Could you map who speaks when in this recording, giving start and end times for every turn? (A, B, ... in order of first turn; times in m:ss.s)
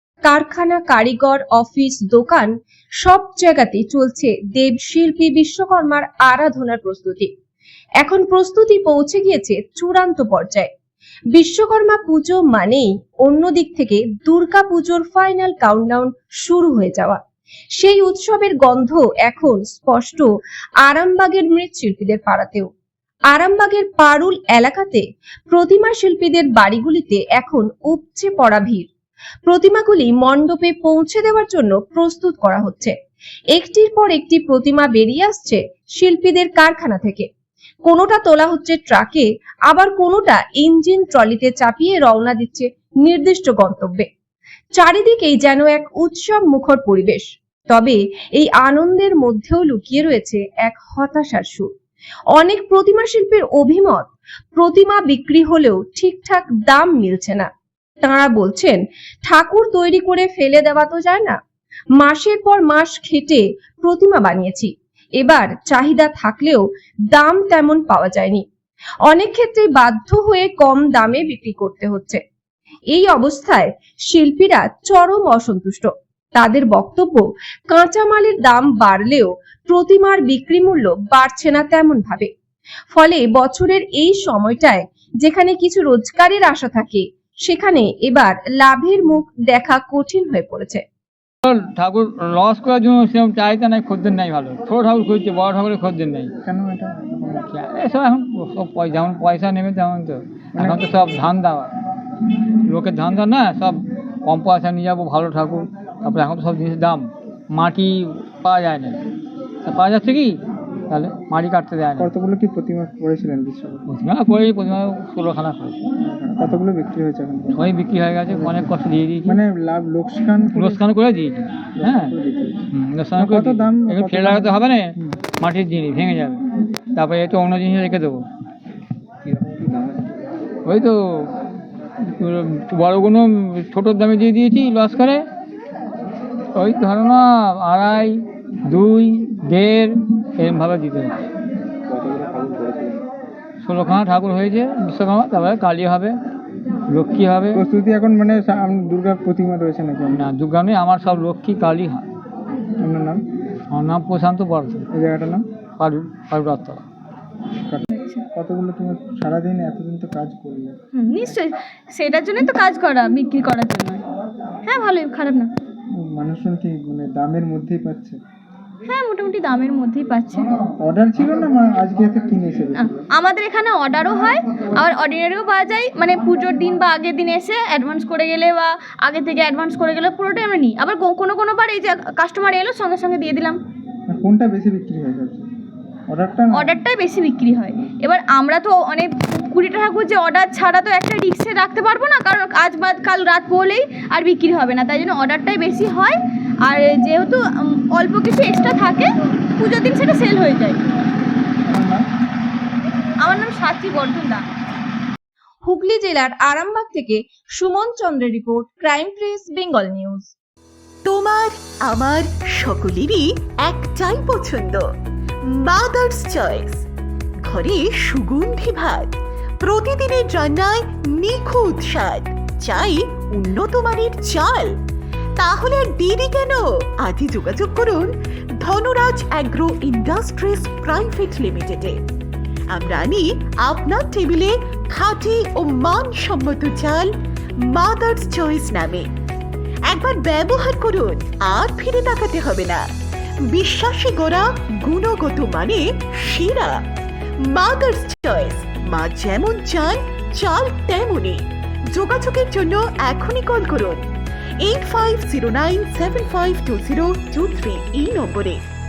0:00.3-0:02.5 A
0:03.0-0:07.3 A
0:08.0-0:10.7 A
0:11.3-0:17.2 A
0:17.8-0:20.3 A
0:20.8-0:22.7 A
0:23.3-0:28.9 A
0:29.5-0:33.0 A
0:33.6-0:37.3 A
0:37.9-0:44.1 A
0:44.8-0:51.7 A
0:52.3-0:57.5 A
0:58.0-1:01.4 A
1:02.0-1:08.4 A
1:09.1-1:12.2 A
1:12.9-1:22.3 A
1:22.9-1:30.8 A
1:31.4-1:36.3 B
1:36.4-1:37.5 C
1:37.5-1:41.7 B
1:40.5-1:41.2 C
1:42.7-1:49.0 B
1:49.6-1:50.4 B
1:50.9-1:52.1 B
1:52.0-1:53.8 C
1:53.9-1:55.8 B
1:56.0-1:57.6 C
1:57.6-1:59.4 B
1:58.3-1:58.7 C
1:59.2-2:00.9 C
2:00.6-2:02.1 B
2:01.8-2:05.2 C
2:02.7-2:06.4 B
2:07.0-2:08.3 B
2:09.2-2:10.1 C
2:10.7-2:11.3 B
2:12.0-2:15.2 B
2:16.6-2:21.2 B
2:21.9-2:23.0 C
2:23.6-2:26.2 B
2:26.9-2:27.6 B
2:27.5-2:30.3 C
2:30.1-2:32.0 B
2:32.8-2:33.2 C
2:33.7-2:34.9 B
2:34.9-2:35.4 C
2:35.8-2:36.8 B
2:37.6-2:40.8 C
2:37.9-2:38.2 D
2:41.0-2:44.0 D
2:44.7-2:45.5 D
2:46.0-2:48.2 C
2:48.9-2:50.6 D
2:50.8-2:53.0 C
2:52.8-3:03.6 D
3:04.1-3:05.5 C
3:06.1-3:06.8 C
3:06.5-3:20.8 D
3:21.7-3:22.1 C
3:23.2-3:24.4 D
3:25.6-3:30.3 A
3:31.0-3:34.8 E
3:35.5-3:36.8 E
3:37.4-3:44.7 E
3:45.4-3:52.0 E
3:52.7-3:57.1 E
3:57.6-3:59.1 E
3:59.9-4:02.9 E
4:03.5-4:06.8 E
4:07.4-4:14.1 E
4:14.6-4:18.6 E